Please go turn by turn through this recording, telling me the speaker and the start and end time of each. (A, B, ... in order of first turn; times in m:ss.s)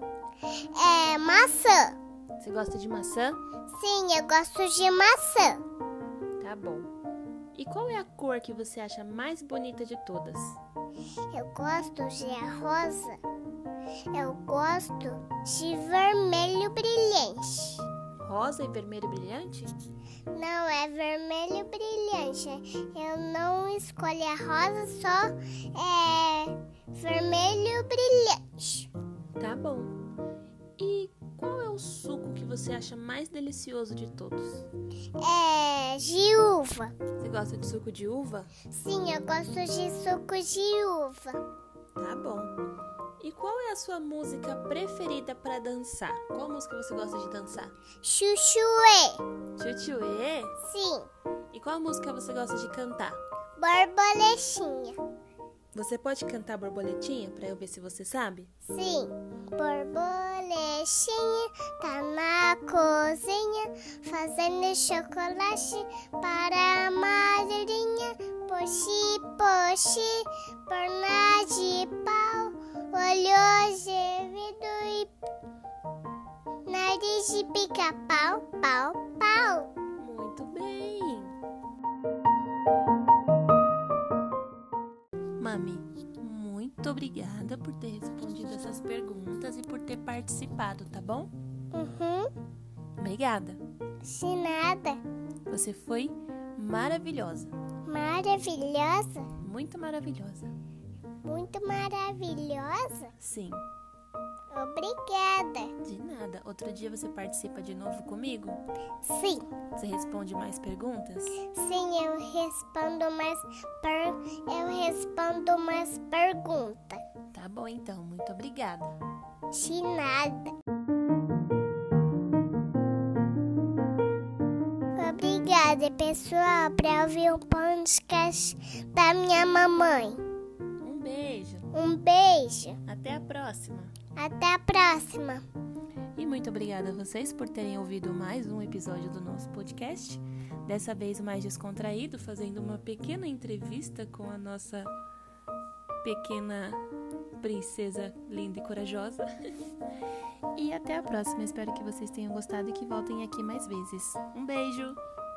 0:00.7-0:02.0 A
0:02.4-0:03.4 B
0:03.7-0:05.6 A
0:06.4-0:06.9 B
0:07.5-0:10.6 B
0:11.3-0:13.2 A
0:14.1-0:17.9 A
0:18.2-0:19.8 B
0:20.3-0:28.9 A
0:29.4-0:30.0 B
0:30.8-0:34.7 B
0:35.2-0:36.9 A
0:37.2-0:38.5 B
0:38.7-0:41.4 A
0:42.0-0:42.6 B
0:43.2-0:47.7 B
0:48.0-0:49.2 A
0:49.6-0:50.6 B
0:50.6-0:51.1 A
0:51.5-0:53.2 B
0:53.6-0:55.0 A
0:55.7-0:58.5 B
0:58.6-1:15.1 A
1:16.7-1:19.7 A
1:20.0-1:21.4 B
1:25.4-1:31.3 B
1:31.7-1:32.3 A
1:33.0-1:33.6 B
1:34.0-1:35.0 A
1:35.5-1:37.5 B
1:37.8-1:39.3 A
1:39.4-1:40.5 B
1:41.2-1:43.1 A
1:43.2-1:43.6 B
1:44.5-1:45.7 A
1:45.8-1:48.6 B
1:49.0-1:49.5 A
1:49.8-1:51.4 B
1:51.4-1:57.0 A
1:57.3-1:59.0 B
1:59.5-2:00.5 A
2:05.0-2:10.2 A
2:10.8-2:11.7 B
2:11.7-2:12.8 A
2:12.8-2:14.0 B
2:14.2-2:15.4 A
2:16.2-2:24.9 B
2:26.0-2:26.8 B
2:27.4-2:29.2 B
2:30.6-2:35.0 B